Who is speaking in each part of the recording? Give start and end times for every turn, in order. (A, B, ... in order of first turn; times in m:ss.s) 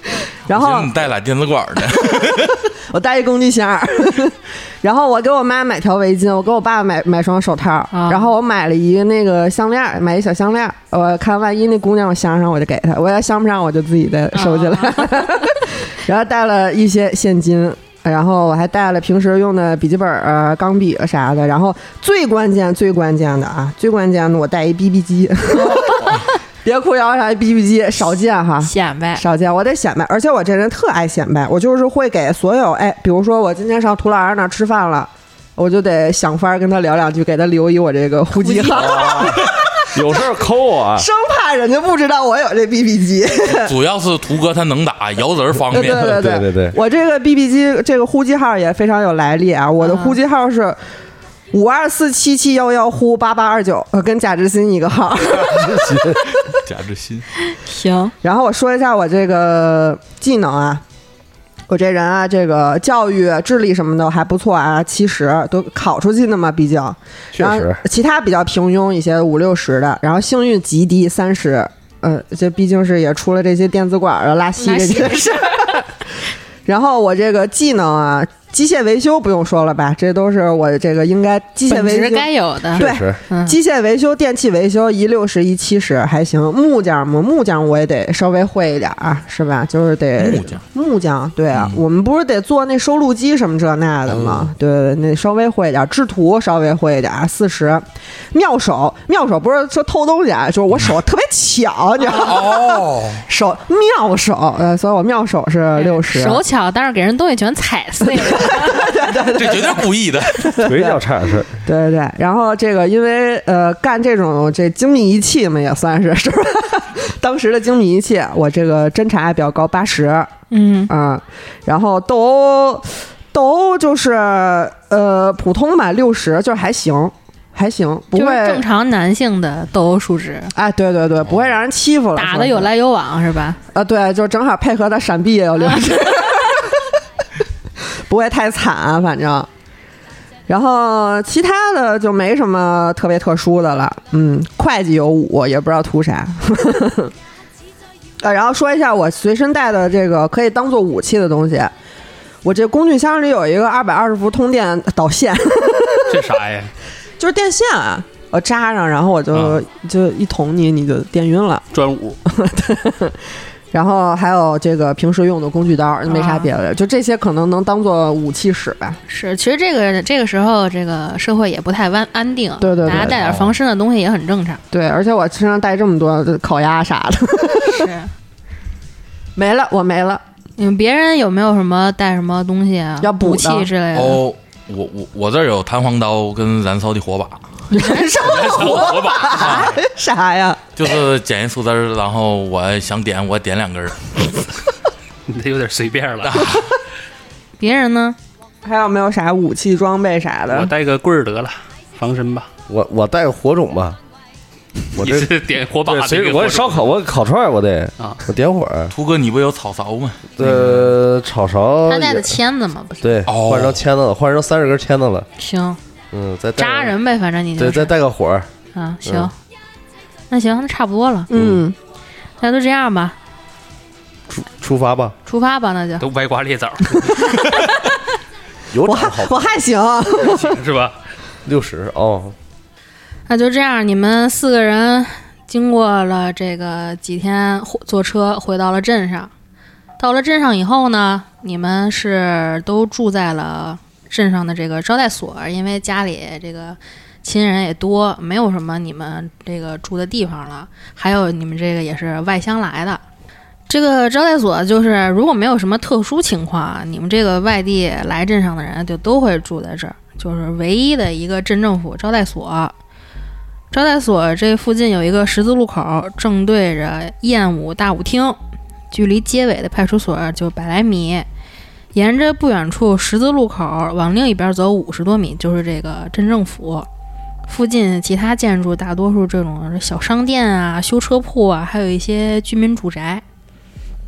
0:00.5-0:00.9 A
0:00.5-0:02.6 B
0:02.0-0:40.4 A
0:07.9-0:08.3 C
0:14.3-0:15.1 C
0:25.6-0:26.2 C
0:28.6-0:29.2 C
0:38.4-0:39.4 C
0:38.8-0:41.1 D
0:40.9-0:43.7 A
0:43.4-0:46.1 B
0:45.7-0:50.8 A
0:45.7-0:46.8 D
0:49.8-0:50.2 C
0:51.5-0:56.0 A
0:55.4-0:56.2 D
0:56.6-0:57.3 B
0:57.5-0:58.1 C
0:58.2-1:00.8 A
1:01.7-1:15.9 A
1:07.3-1:07.8 D
1:14.6-1:15.7 C
1:16.6-1:46.4 A
1:21.7-1:23.6 C
1:22.8-1:23.2 D
1:30.2-1:30.6 B
1:31.5-1:31.8 B
1:34.1-1:34.5 B
1:42.0-1:43.2 B
1:45.8-1:48.9 C
1:48.0-1:51.0 A
1:49.4-1:50.6 B
1:50.6-1:51.6 D
1:51.6-2:00.3 A
2:00.5-2:00.9 C
2:00.9-2:08.6 A
2:08.1-2:10.5 C
2:10.5-2:12.7 A
2:12.1-2:13.6 C
2:13.7-2:16.8 A
2:18.1-2:19.5 A
2:20.5-2:27.1 A
2:28.2-2:31.7 A
2:32.4-2:36.2 A
2:36.1-2:36.7 E
2:37.2-2:41.7 A
2:39.3-2:39.6 E
2:41.7-2:42.2 E
2:42.2-2:43.2 A
2:43.7-2:49.0 A
2:46.1-2:46.5 C
2:49.1-2:54.6 C
2:52.6-2:53.2 A
2:54.7-2:57.9 A
2:57.6-2:58.1 C
2:59.4-3:00.2 A
3:00.6-3:04.2 C
3:03.0-3:03.7 A
3:03.9-3:07.4 B
3:07.7-3:10.6 A
3:07.8-3:08.1 C
3:08.2-3:09.8 E
3:09.2-3:09.8 B
3:10.8-3:14.1 B
3:15.2-3:16.6 E
3:16.2-3:16.8 B
3:17.6-3:18.2 C
3:18.6-3:20.7 A
3:20.5-3:22.5 E
3:22.7-3:24.0 D
3:25.0-3:25.3 D
3:25.0-3:26.9 E
3:25.8-3:28.9 D
3:28.9-3:31.0 B
3:30.4-3:32.4 D
3:31.9-3:33.0 C
3:33.0-3:35.3 D
3:33.2-3:33.8 B
3:35.4-3:35.8 C
3:36.1-3:37.0 D
3:36.6-3:37.9 C
3:37.6-3:38.5 D
3:38.7-3:39.3 C
3:39.0-3:39.3 D
3:40.3-3:41.3 C
3:41.3-3:41.8 A
3:41.3-3:41.6 D
3:42.4-3:43.2 C
3:44.3-3:45.2 D
3:45.2-3:46.0 C
3:46.0-3:47.4 E
3:48.7-3:49.5 D
3:48.8-3:50.6 A
3:50.2-3:51.0 E
3:51.4-3:52.3 D
3:53.3-3:59.3 C
4:00.0-4:13.0 C
4:13.7-4:22.7 C
4:23.7-4:28.4 C
4:28.9-4:31.3 C
4:31.9-4:36.9 C
4:37.5-4:43.2 C